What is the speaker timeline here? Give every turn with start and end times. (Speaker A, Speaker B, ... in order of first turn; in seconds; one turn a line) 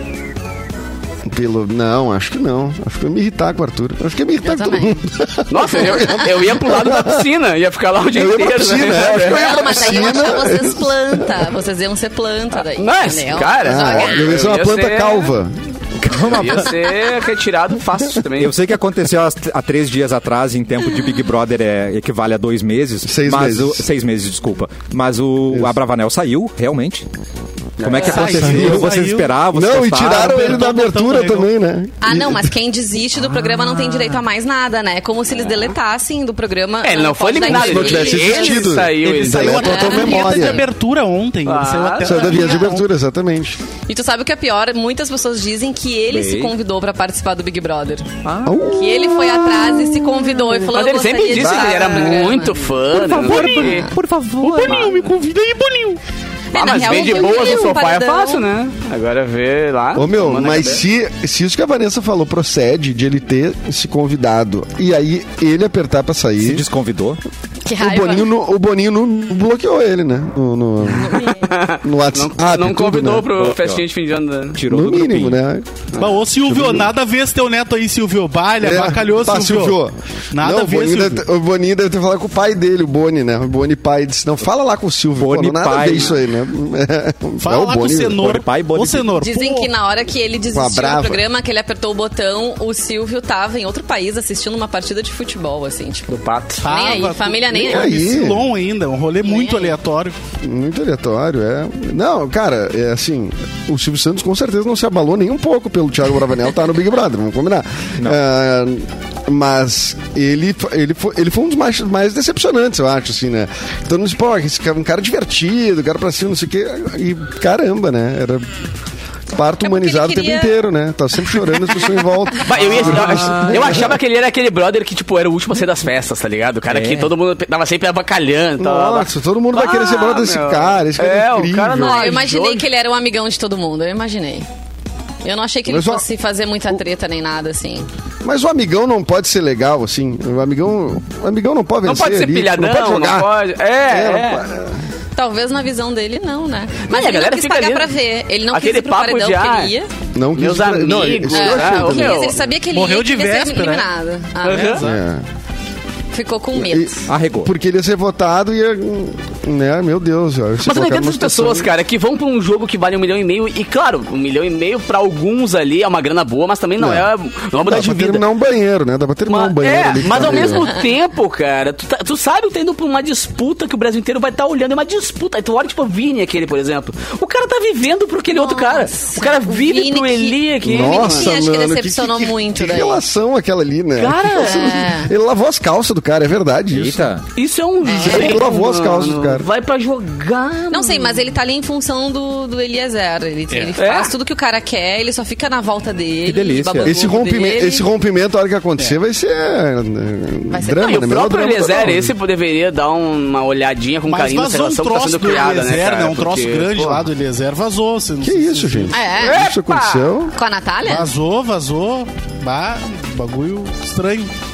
Speaker A: 1.2-7.3
Speaker B: 4.4-5.0
Speaker C: 5.5-10.3
Speaker A: 8.1-11.5
Speaker B: 9.2-14.3
Speaker C: 12.8-15.3
Speaker A: 13.6-15.5
Speaker D: 16.0-16.7
Speaker C: 16.2-18.6
Speaker D: 18.3-27.0
Speaker A: 23.0-23.8
Speaker C: 27.8-28.6
Speaker D: 27.8-30.6
Speaker E: 27.9-29.3
Speaker A: 28.3-28.9
Speaker A: 29.5-32.5
Speaker E: 30.0-31.5
Speaker B: 32.0-38.7
Speaker D: 33.5-34.0
Speaker C: 35.4-35.7
Speaker C: 36.8-40.1
Speaker A: 37.5-40.6
Speaker E: 38.3-42.9
Speaker B: 39.5-40.4
Speaker C: 41.4-42.4
Speaker A: 42.0-43.6
Speaker B: 43.9-52.7
Speaker D: 46.1-46.5
Speaker D: 48.2-50.5
Speaker A: 48.4-49.2
Speaker C: 50.7-53.9
Speaker A: 51.4-51.7
Speaker D: 52.9-54.9
Speaker E: 53.2-53.8
Speaker B: 53.5-53.9
Speaker E: 54.4-56.0
Speaker C: 54.6-55.1
Speaker B: 56.5-58.4
Speaker C: 56.5-60.8
Speaker A: 59.9-66.6
Speaker D: 66.4-67.2
Speaker B: 67.6-68.3
Speaker A: 67.8-73.3
Speaker B: 71.0-71.5
Speaker C: 71.3-74.6
Speaker D: 73.3-73.8
Speaker D: 74.5-75.4
Speaker A: 74.7-75.9
Speaker E: 76.0-79.8
Speaker A: 76.4-76.9
Speaker A: 78.6-88.3
Speaker E: 80.3-81.2
Speaker D: 85.2-86.2
Speaker E: 87.4-89.7
Speaker D: 88.2-89.1
Speaker B: 89.2-98.0
Speaker A: 90.5-91.2
Speaker C: 96.1-96.6
Speaker E: 96.6-100.2
Speaker A: 97.5-98.5
Speaker B: 99.2-99.8
Speaker A: 100.4-118.5
Speaker A: 119.3-124.0
Speaker B: 119.6-120.6
Speaker C: 122.4-132.7
Speaker D: 122.9-123.8
Speaker D: 126.7-127.1
Speaker A: 128.6-132.1
Speaker B: 131.8-134.4
Speaker B: 135.2-137.8
Speaker A: 135.7-136.0
Speaker A: 138.2-143.3
Speaker C: 141.8-144.4
Speaker A: 143.9-144.8
Speaker B: 145.2-149.9
Speaker C: 146.9-147.9
Speaker C: 148.5-149.7
Speaker A: 150.1-152.3
Speaker C: 150.4-152.4
Speaker B: 151.3-154.8
Speaker E: 152.7-153.9
Speaker C: 154.4-154.8
Speaker E: 154.4-155.0
Speaker A: 154.8-155.2
Speaker B: 156.1-157.1
Speaker A: 156.5-161.7
Speaker D: 157.1-157.5
Speaker C: 160.6-168.2
Speaker A: 166.8-167.1
Speaker A: 167.6-170.7
Speaker C: 169.2-181.3
Speaker B: 178.3-183.0
Speaker A: 180.6-187.1
Speaker C: 184.0-184.9
Speaker B: 184.3-185.1
Speaker D: 186.7-187.2
Speaker C: 187.3-191.3
Speaker B: 187.8-188.4
Speaker A: 187.9-189.5
Speaker B: 190.7-197.8
Speaker C: 193.8-194.1
Speaker D: 196.2-196.9
Speaker A: 196.8-202.1
Speaker B: 200.5-201.0
Speaker C: 200.8-207.0
Speaker E: 204.1-208.9
Speaker A: 208.2-210.3
Speaker B: 208.9-209.4
Speaker C: 209.2-210.1
Speaker B: 210.3-211.1
Speaker E: 210.8-214.3